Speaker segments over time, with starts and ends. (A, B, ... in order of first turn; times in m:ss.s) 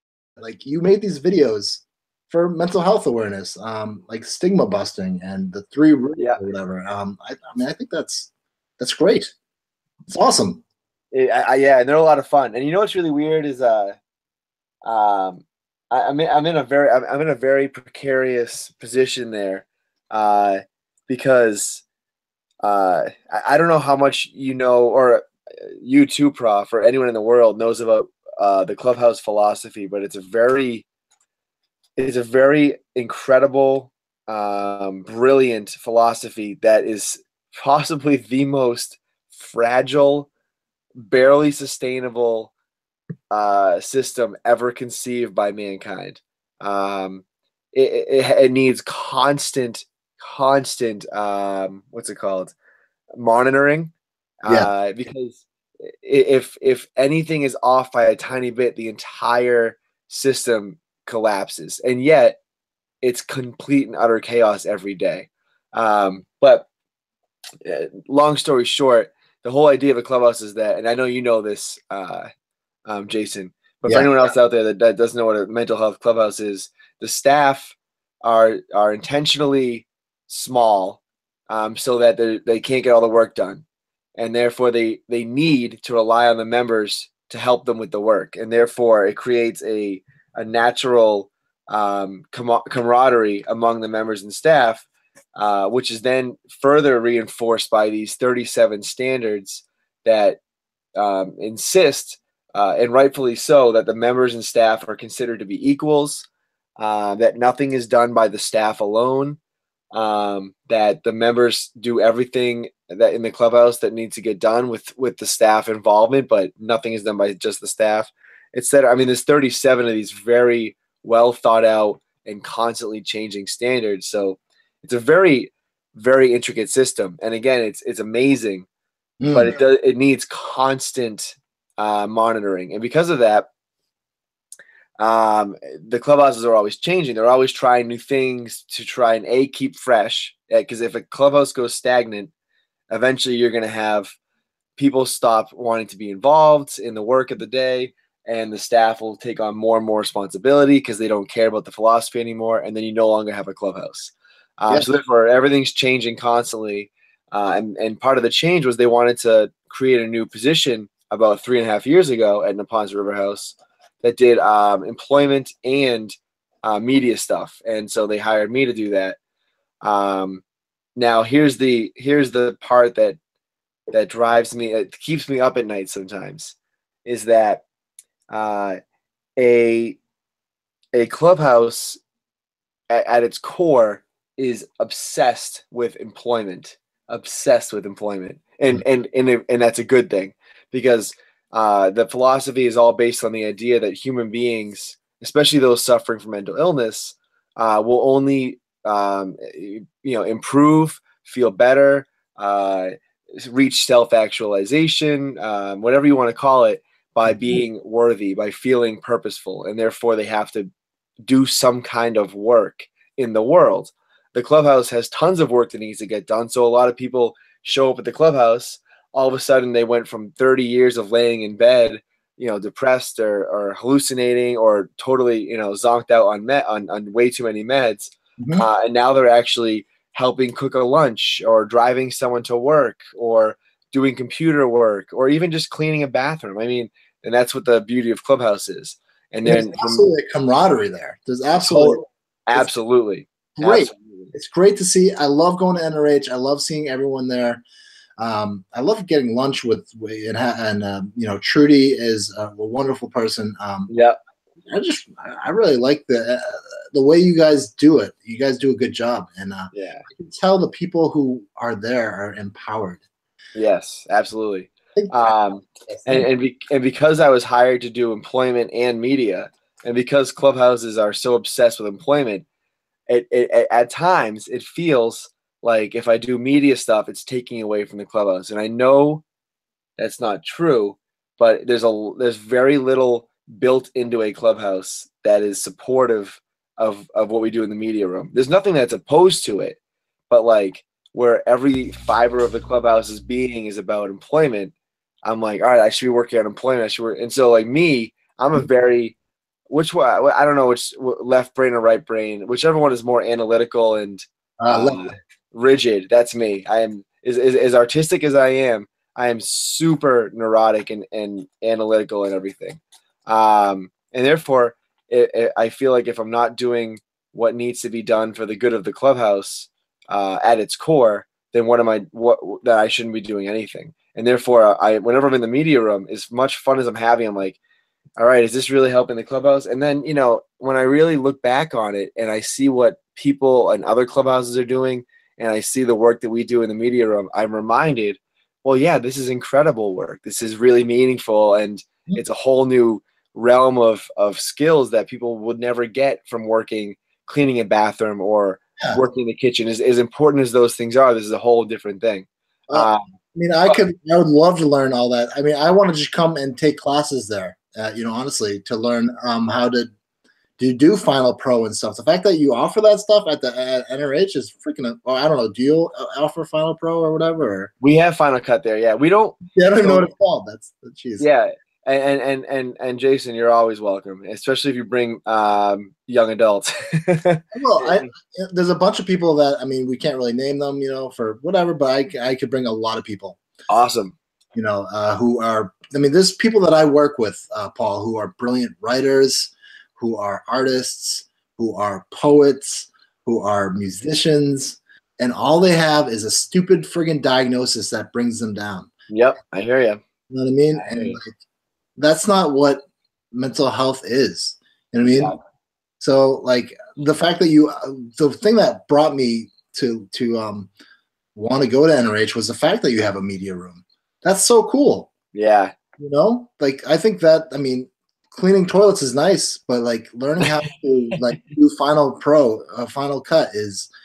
0:00.4-0:09.3 A
0:10.1-0:10.6 A
0:11.1-0:14.0 B
0:14.8-0:21.8 B
0:22.6-0:30.8 B
0:32.0-0:40.3 B
0:41.0-0:42.5 B
0:43.3-0:52.5 B
0:53.2-1:02.4 B
1:03.0-1:06.7 B
1:07.6-1:12.3 B
1:12.9-1:23.6 B
1:24.2-1:40.4 B
1:41.0-1:46.3 B
1:46.8-1:49.4 B
1:49.9-2:08.7 B
2:09.2-2:09.6 A
2:09.3-2:13.5 B
2:15.0-2:22.3 B
2:22.9-2:24.2 B
2:24.8-2:49.2 B
2:49.8-2:50.4 B
2:51.0-2:53.2 B
2:53.9-2:57.6 B
2:58.3-2:58.8 B
2:59.4-3:00.0 B
3:00.9-3:02.0 B
3:02.9-3:30.7 B
3:31.2-4:00.1 B
3:48.4-3:48.7 A
3:59.4-4:02.7 A
4:01.7-4:04.3 B
4:03.6-4:07.6 A
4:08.2-4:13.9 A
4:13.9-4:14.2 B
4:14.7-4:23.0 A
4:19.7-4:20.0 B
4:23.6-4:32.4 B
4:25.0-4:26.3 A
4:33.1-4:39.2 B
4:40.0-4:49.8 B
4:50.3-4:54.7 B
4:55.2-4:59.2 B
4:59.7-5:27.6 B
5:04.6-5:05.2 A
5:28.2-5:53.1 B
5:52.7-5:59.9 A
6:00.6-6:07.7 A
6:07.8-6:10.1 B
6:09.5-6:11.2 A
6:11.2-6:18.1 B
6:17.5-6:23.4 A
6:23.7-6:24.2 B
6:24.5-6:38.9 A
6:39.1-6:40.0 B
6:40.3-6:41.4 A
6:40.7-6:41.2 B
6:42.0-6:45.3 A
6:46.0-6:50.7 A
6:51.4-6:55.1 A
6:55.3-6:55.7 B
6:56.0-7:03.9 A